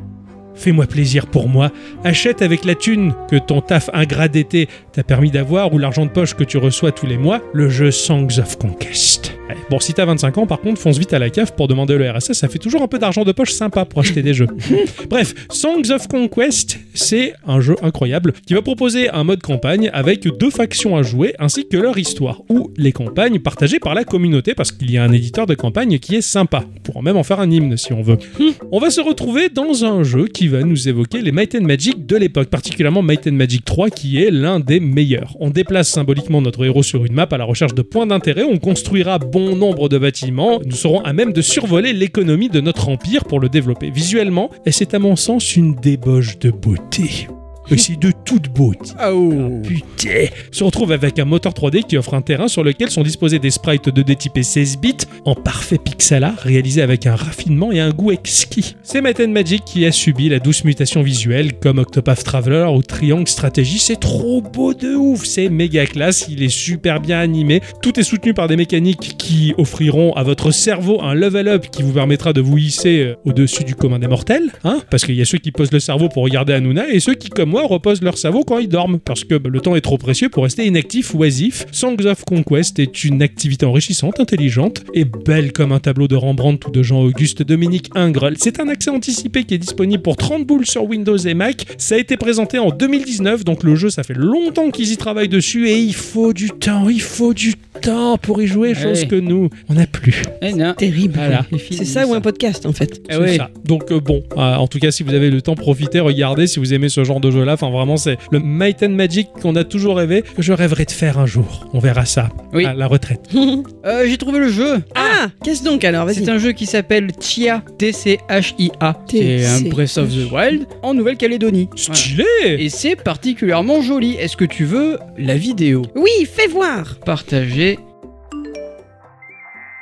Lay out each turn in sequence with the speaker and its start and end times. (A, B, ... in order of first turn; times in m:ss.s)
0:00.6-1:40.4 A
0:49.0-0:49.8 B
1:38.7-1:39.1 B
1:40.4-1:42.2 B
1:40.8-1:43.1 C
1:41.1-1:41.5 A
1:43.1-1:43.5 B
1:43.1-1:53.2 A
1:53.3-1:53.7 C
1:53.8-1:54.9 B
1:54.9-1:55.2 A
1:54.9-1:56.3 C
1:56.1-2:05.9 B
1:59.1-2:00.2 C
2:01.8-2:02.6 A
2:05.9-2:07.0 C
2:07.0-2:07.8 B